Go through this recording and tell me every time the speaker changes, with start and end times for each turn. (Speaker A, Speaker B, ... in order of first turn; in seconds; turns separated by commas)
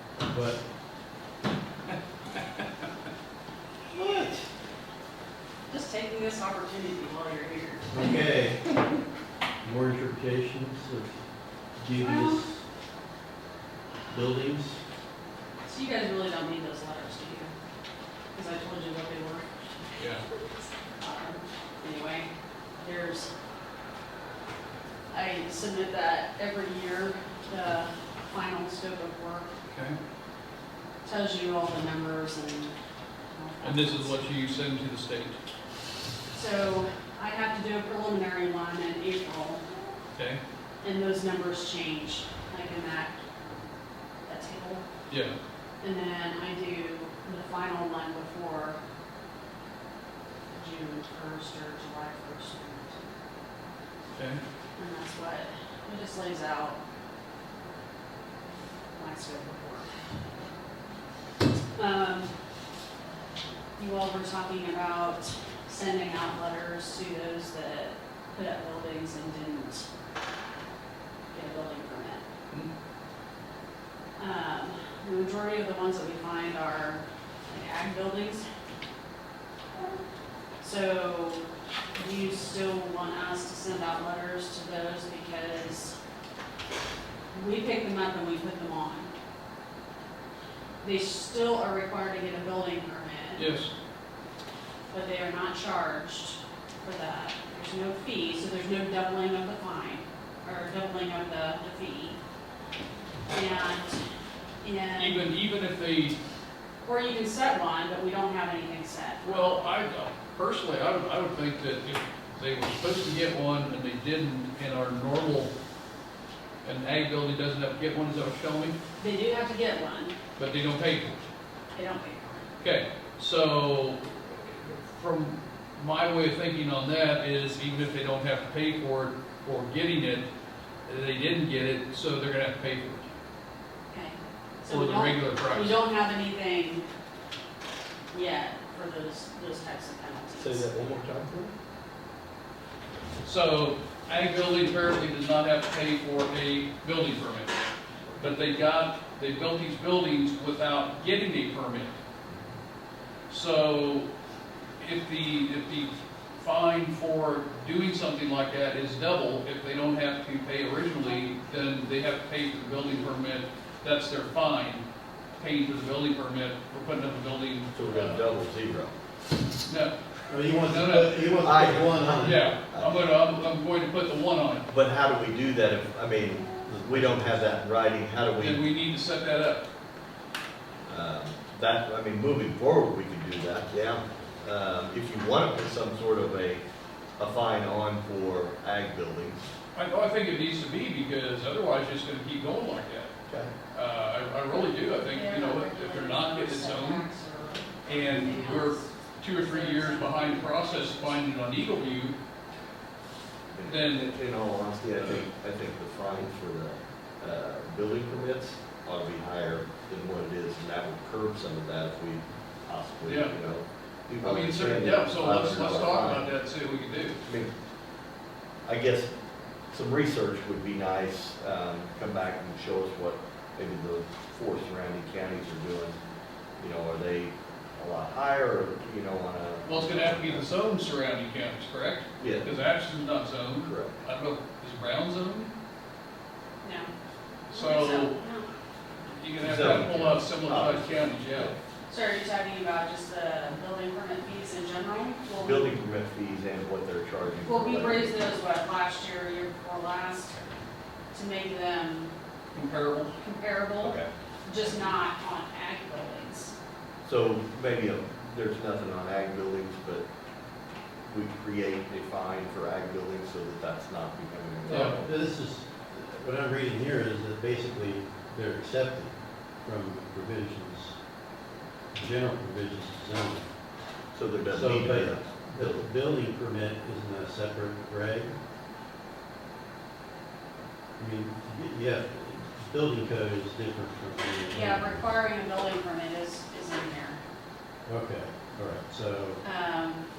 Speaker A: 0.2-0.6, Speaker A: 3.9-4.4, Speaker B: 5.7-8.1, Speaker A: 7.9-8.7, Speaker A: 9.6-11.2, Speaker A: 11.8-12.6, Speaker B: 12.0-12.4, Speaker A: 14.1-14.8, Speaker B: 15.6-17.5, Speaker B: 18.3-19.7, Speaker C: 20.0-20.2, Speaker B: 21.0-23.3, Speaker B: 25.1-29.5, Speaker C: 29.7-30.0, Speaker B: 31.0-32.7, Speaker B: 33.3-34.3, Speaker C: 33.6-35.4, Speaker B: 36.3-39.6, Speaker C: 40.1-40.4, Speaker B: 40.8-43.2, Speaker B: 44.2-44.8, Speaker C: 45.1-45.3, Speaker B: 45.8-48.8, Speaker B: 50.5-53.1, Speaker C: 54.1-54.4, Speaker B: 54.8-56.8, Speaker B: 58.9-59.9, Speaker B: 61.8-62.3, Speaker B: 63.8-69.9, Speaker B: 71.3-72.2, Speaker B: 74.2-78.4, Speaker B: 80.6-81.4, Speaker B: 81.9-85.9, Speaker B: 87.3-89.1, Speaker B: 90.8-93.5, Speaker C: 93.3-93.7, Speaker B: 94.9-102.2, Speaker B: 103.3-104.0, Speaker B: 104.6-105.3, Speaker C: 104.9-106.2, Speaker B: 106.8-109.5, Speaker C: 109.2-115.5, Speaker C: 116.6-118.7, Speaker B: 119.0-120.1, Speaker C: 120.4-121.2, Speaker B: 121.7-122.5, Speaker C: 122.6-130.3, Speaker C: 130.8-133.1, Speaker B: 133.9-136.9, Speaker C: 134.7-135.8, Speaker B: 138.1-140.9, Speaker D: 140.4-141.5, Speaker C: 143.2-147.5, Speaker C: 148.2-151.9, Speaker C: 153.3-154.1, Speaker C: 154.8-164.8, Speaker C: 165.4-168.2, Speaker D: 167.7-168.9, Speaker C: 169.7-169.9, Speaker A: 170.3-172.4, Speaker C: 170.6-171.3, Speaker D: 171.4-173.1, Speaker C: 172.1-174.7, Speaker D: 174.7-178.6, Speaker A: 176.7-177.4, Speaker C: 178.4-179.7, Speaker D: 180.9-186.6, Speaker D: 187.2-189.4, Speaker C: 189.7-193.1, Speaker D: 193.3-193.5, Speaker C: 193.7-197.0, Speaker B: 195.0-200.6, Speaker C: 197.8-202.2, Speaker D: 203.5-216.3, Speaker C: 203.6-204.1, Speaker C: 213.0-213.3, Speaker C: 214.2-217.2, Speaker D: 217.2-217.5, Speaker D: 218.7-219.1, Speaker D: 219.7-226.0, Speaker D: 226.6-230.4, Speaker C: 229.7-235.5, Speaker D: 232.2-232.5, Speaker D: 233.6-234.0, Speaker B: 236.6-236.9, Speaker C: 237.5-238.2, Speaker B: 237.5-238.5, Speaker C: 239.1-241.5, Speaker D: 239.4-241.6, Speaker B: 241.9-245.7, Speaker D: 245.4-248.3, Speaker B: 247.4-250.4, Speaker B: 251.1-252.1, Speaker C: 252.5-253.1, Speaker B: 253.1-256.5, Speaker D: 253.8-254.1, Speaker D: 257.0-260.0, Speaker D: 261.1-265.1, Speaker A: 264.6-270.9, Speaker C: 264.7-264.9, Speaker A: 271.9-273.5, Speaker D: 274.1-275.9, Speaker A: 274.5-278.4, Speaker A: 281.0-285.0, Speaker B: 284.5-287.2, Speaker A: 287.9-289.4, Speaker B: 289.4-290.0